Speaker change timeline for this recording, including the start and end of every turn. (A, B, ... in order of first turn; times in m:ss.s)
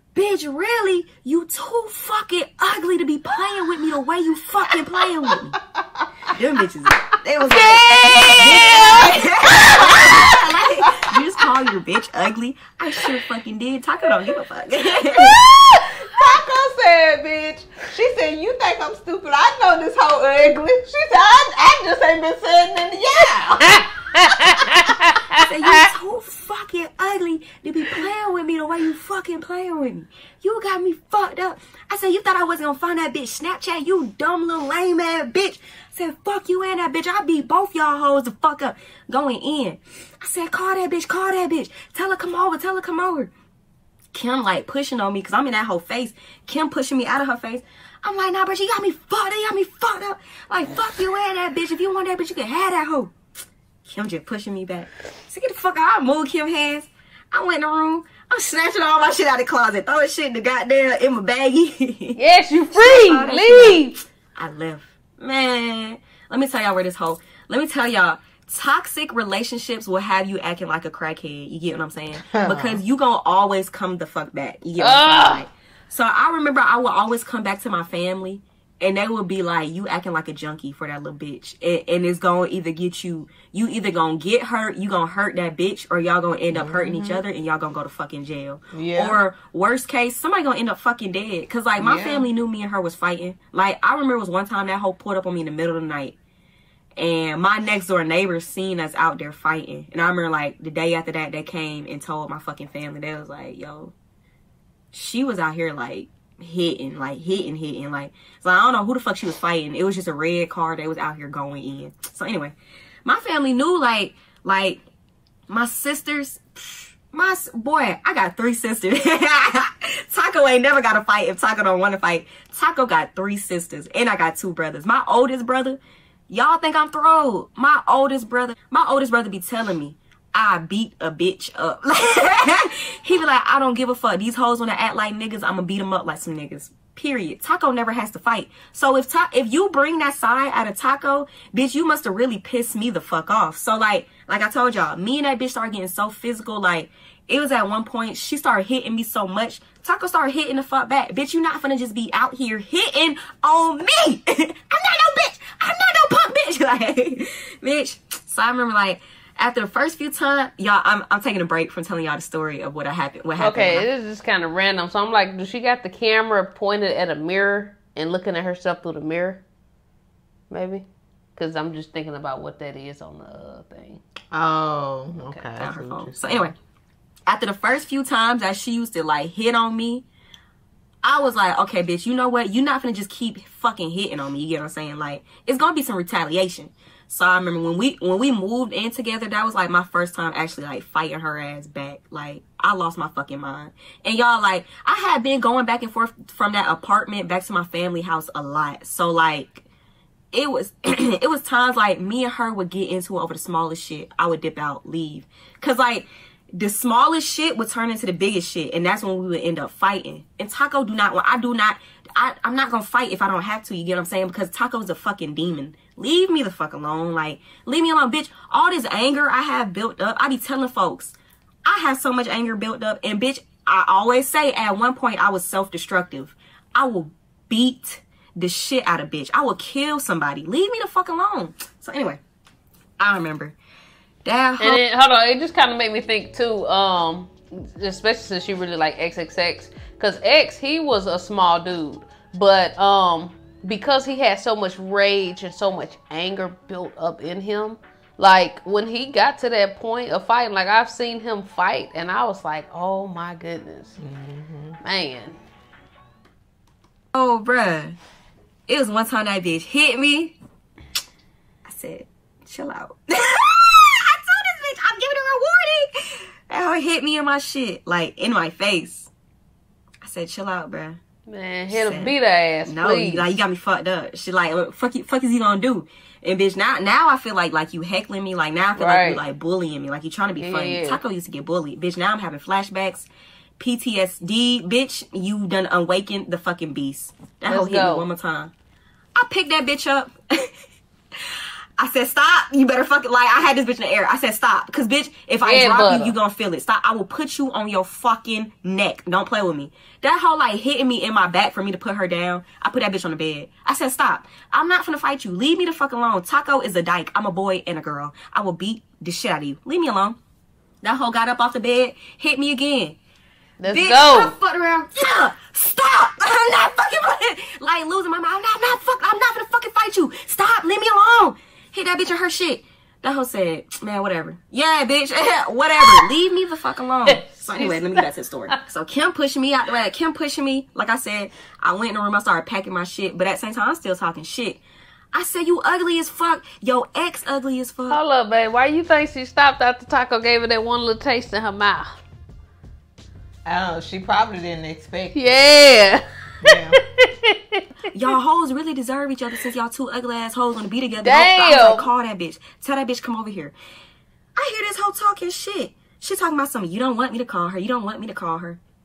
0:00.1-0:05.6 A
0:05.7-0:06.0 B
0:06.3-0:15.4 A
0:07.5-0:09.2 C
0:08.2-0:10.9 B
0:15.4-0:25.1 B
0:15.5-0:15.8 C
0:23.7-0:25.7 C
0:25.3-0:43.3 A
0:44.1-0:53.1 A
0:53.8-1:02.2 A
1:02.2-1:04.0 C
1:02.7-1:36.2 A
1:12.2-1:12.8 B
1:14.8-1:15.4 C
1:26.5-1:27.2 B
1:28.7-1:29.2 B
1:31.8-1:32.3 B
1:37.0-1:43.9 A
1:44.9-1:54.8 A
1:55.5-2:43.9 A
2:43.4-2:49.4 C
2:50.5-2:50.8 C
2:51.4-2:54.0 C
2:54.3-2:56.5 B
2:55.2-2:55.4 C
2:55.6-2:56.6 A
2:57.3-3:00.0 A
3:01.0-3:19.6 A
3:20.3-3:52.2 A
3:53.0-3:53.6 A
3:54.2-3:54.8 A
3:54.6-4:14.0 C
4:14.0-4:14.8 B
4:14.8-4:15.4 C
4:17.1-4:18.0 A
4:18.7-4:20.3 A
4:21.6-4:29.1 A
4:30.0-4:31.0 A
4:31.3-4:33.4 C
4:31.7-4:43.1 A
4:38.8-4:39.2 C
4:40.4-4:41.0 C
4:43.6-4:48.5 A
4:47.5-4:48.1 C
4:49.2-4:50.5 A
4:51.2-5:10.2 A
4:55.4-4:56.2 C
5:10.8-5:13.0 A
5:13.6-5:14.3 C
5:13.7-5:34.6 A
5:25.8-5:26.1 C
5:27.1-5:28.5 C
5:35.1-5:38.0 A
5:37.9-5:42.0 C
5:43.4-5:45.3 B
5:45.1-5:47.6 C
5:46.4-5:46.8 B
5:47.9-5:53.5 A
5:51.0-5:51.9 C
5:54.4-5:58.6 A